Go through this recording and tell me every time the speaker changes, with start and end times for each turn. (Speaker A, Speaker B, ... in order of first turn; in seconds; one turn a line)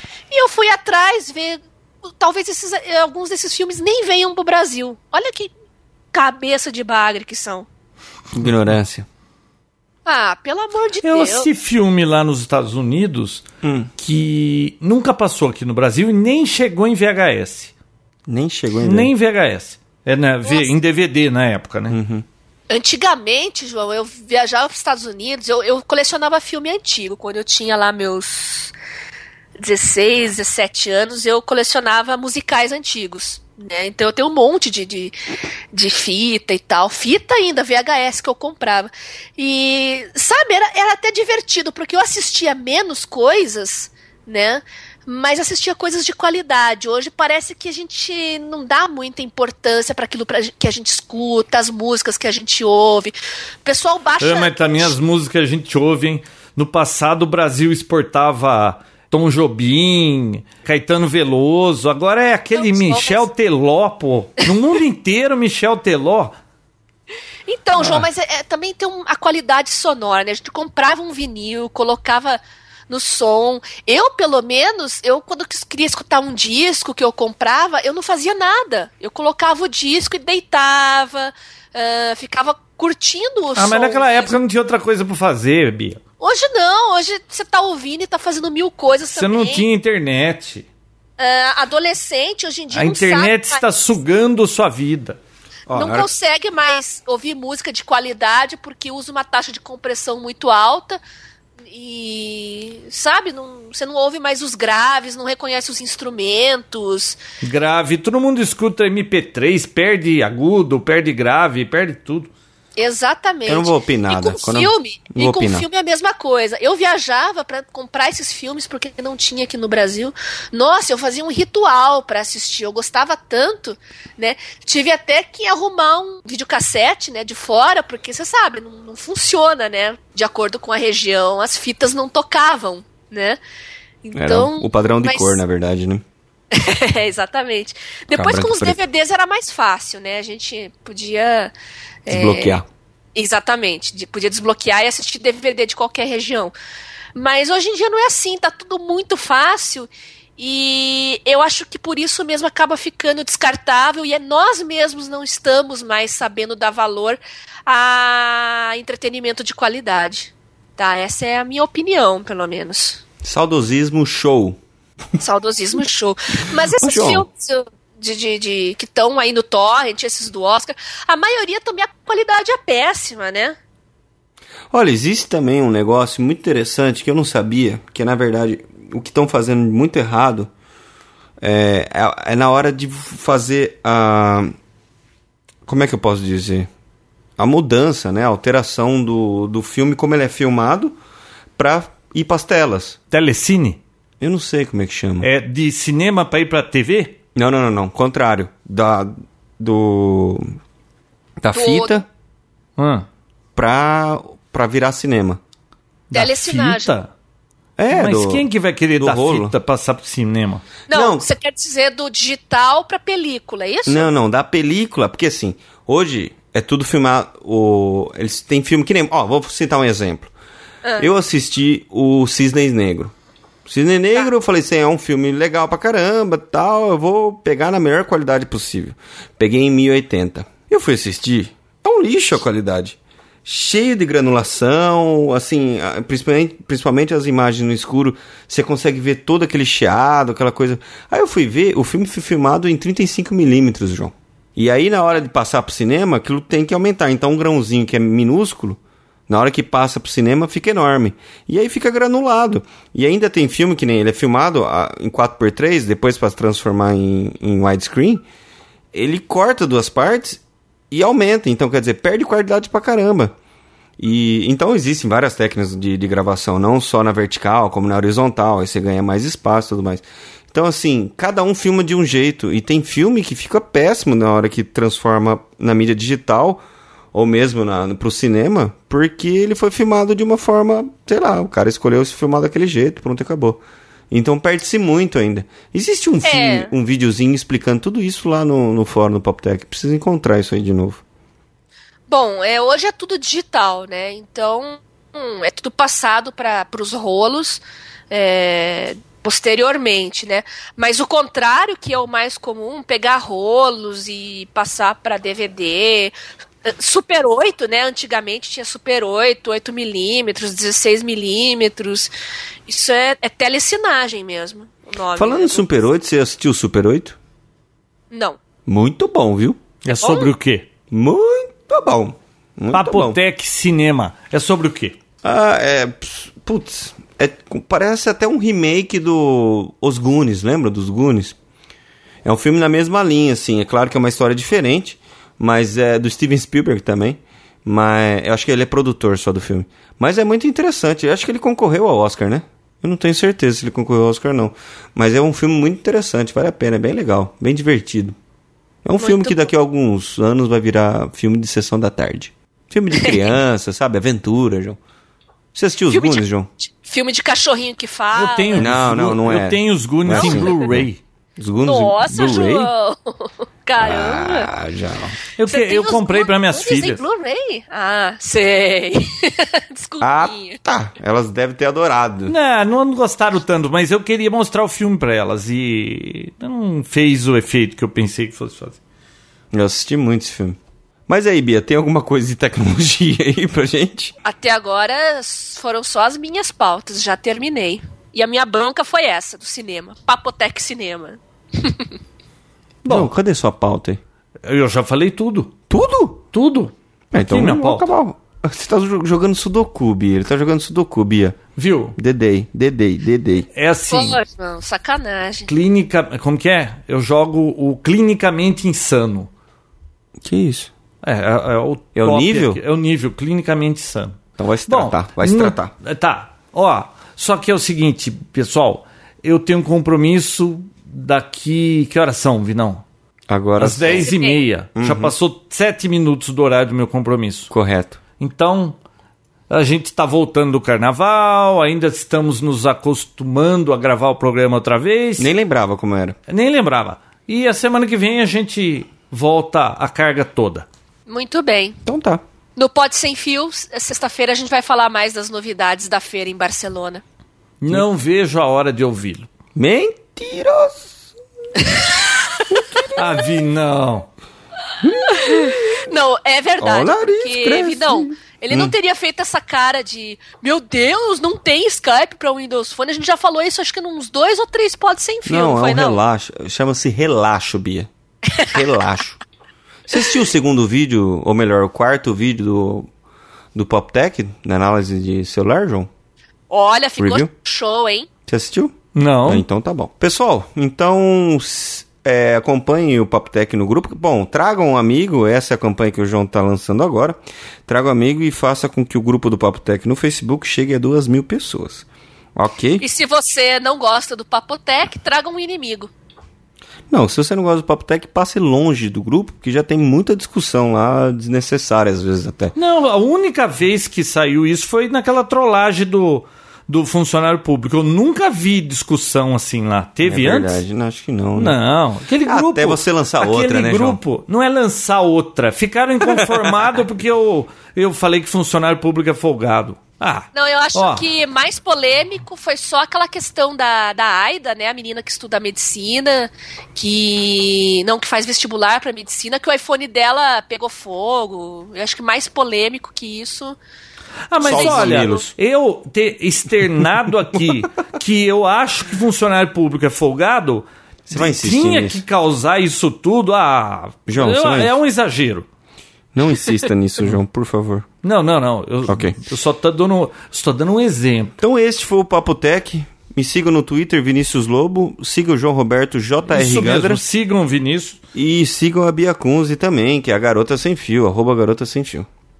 Speaker A: 0.3-5.5
Speaker A: 6.1-7.7
Speaker B: 8.3-9.1
Speaker A: 10.1-11.5
Speaker C: 11.0-13.4
Speaker B: 13.6-13.9
Speaker C: 14.0-17.7
Speaker B: 18.3-19.1
Speaker C: 18.8-22.0
Speaker A: 20.4-20.8
Speaker B: 21.9-22.2
Speaker A: 22.7-28.7
Speaker A: 29.6-35.2
Speaker A: 35.7-55.0
Speaker C: 54.2-66.3
Speaker A: 62.5-63.2
Speaker A: 67.5-84.3
Speaker C: 67.8-68.0
Speaker C: 83.6-86.0
Speaker A: 86.2-89.7
Speaker C: 89.1-90.7
Speaker A: 91.2-93.6
Speaker C: 92.7-95.2
Speaker B: 95.7-96.1
Speaker A: 95.7-101.0
Speaker A: 101.7-107.2
Speaker C: 107.4-112.3
Speaker A: 112.8-133.4
Speaker B: 113.5-115.7
Speaker A: 134.0-135.4
Speaker B: 134.1-136.0
Speaker A: 136.5-141.5
Speaker B: 138.1-138.8
Speaker A: 142.1-142.6
Speaker B: 142.1-142.7
Speaker A: 143.2-146.5
Speaker A: 147.2-163.0
Speaker B: 163.2-164.6
Speaker A: 165.2-173.6
Speaker B: 166.8-167.3
Speaker B: 174.7-180.5
Speaker B: 181.4-184.6
Speaker B: 185.7-186.7
Speaker B: 187.4-191.0
Speaker B: 191.6-193.0
Speaker C: 193.1-193.8
Speaker B: 194.2-195.3
Speaker C: 195.2-197.2
Speaker B: 197.4-200.6
Speaker B: 201.4-202.1
Speaker A: 201.5-202.0
Speaker C: 202.8-203.1
Speaker B: 203.6-205.4
Speaker C: 206.1-207.1
Speaker A: 206.1-206.9
Speaker B: 207.8-209.6
Speaker C: 207.9-210.7
Speaker B: 210.9-211.3
Speaker A: 210.9-214.1
Speaker B: 213.9-220.3
Speaker A: 220.8-221.1
Speaker B: 221.0-223.1
Speaker B: 223.7-258.2
Speaker B: 258.9-263.3
Speaker B: 264.0-276.6
Speaker B: 277.1-291.0
Speaker A: 286.2-286.7
Speaker A: 292.1-312.1
Speaker A: 312.7-315.7
Speaker B: 315.1-317.2
Speaker A: 318.1-318.4
Speaker B: 318.7-319.6
Speaker C: 319.8-320.7
Speaker A: 320.0-320.3
Speaker B: 320.9-323.2
Speaker C: 322.7-325.0
Speaker B: 325.2-331.4
Speaker B: 332.2-348.2
Speaker B: 348.9-354.8
Speaker A: 349.0-349.5
Speaker A: 352.9-353.4
Speaker B: 355.5-356.5
Speaker A: 355.9-358.7
Speaker C: 358.1-361.0
Speaker B: 358.6-362.7
Speaker A: 360.2-360.7
Speaker A: 361.6-364.5
Speaker B: 363.8-365.2
Speaker C: 365.4-367.0
Speaker A: 365.5-370.6
Speaker B: 370.0-372.4
Speaker C: 372.3-378.8
Speaker B: 379.5-384.1
Speaker A: 384.2-391.9
Speaker C: 392.8-393.1
Speaker B: 392.9-394.0
Speaker C: 394.4-395.6
Speaker B: 395.7-396.2
Speaker C: 396.3-397.9
Speaker B: 397.1-401.4
Speaker C: 401.6-402.0
Speaker B: 402.0-403.5
Speaker C: 403.6-404.2
Speaker A: 403.9-405.5
Speaker C: 405.5-409.3
Speaker B: 410.2-410.7
Speaker C: 411.0-422.8
Speaker B: 412.0-412.6
Speaker B: 414.4-415.7
Speaker B: 423.3-424.1
Speaker C: 423.6-427.5
Speaker A: 424.1-424.4
Speaker B: 424.8-425.1
Speaker B: 427.5-428.0
Speaker C: 428.2-428.8
Speaker C: 429.5-435.3
Speaker B: 435.2-436.2
Speaker C: 436.3-440.7
Speaker A: 441.1-441.8
Speaker B: 441.9-442.2
Speaker A: 442.6-447.0
Speaker C: 447.6-449.3
Speaker B: 449.6-451.0
Speaker A: 451.6-452.9
Speaker B: 452.5-453.2
Speaker C: 452.9-454.1
Speaker B: 454.8-455.8
Speaker A: 455.0-466.0
Speaker B: 456.6-458.8
Speaker B: 465.3-467.9
Speaker B: 468.4-469.2
Speaker B: 469.9-472.9
Speaker B: 473.5-475.9
Speaker A: 476.5-478.1
Speaker B: 477.0-477.3
Speaker B: 478.3-492.9
Speaker C: 478.9-479.5
Speaker A: 492.8-495.9
Speaker B: 496.9-502.6
Speaker C: 502.6-510.6
Speaker B: 510.0-511.6
Speaker C: 511.4-521.0
Speaker B: 512.2-514.0
Speaker B: 516.0-516.5
Speaker A: 520.3-533.6
Speaker C: 534.3-545.5
Speaker B: 534.4-535.3
Speaker A: 534.4-535.3
Speaker B: 541.1-542.0
Speaker B: 544.1-544.7
Speaker B: 546.1-547.9
Speaker C: 548.0-551.4
Speaker B: 548.9-549.2
Speaker B: 551.4-557.0
Speaker C: 556.3-558.0
Speaker B: 558.1-562.1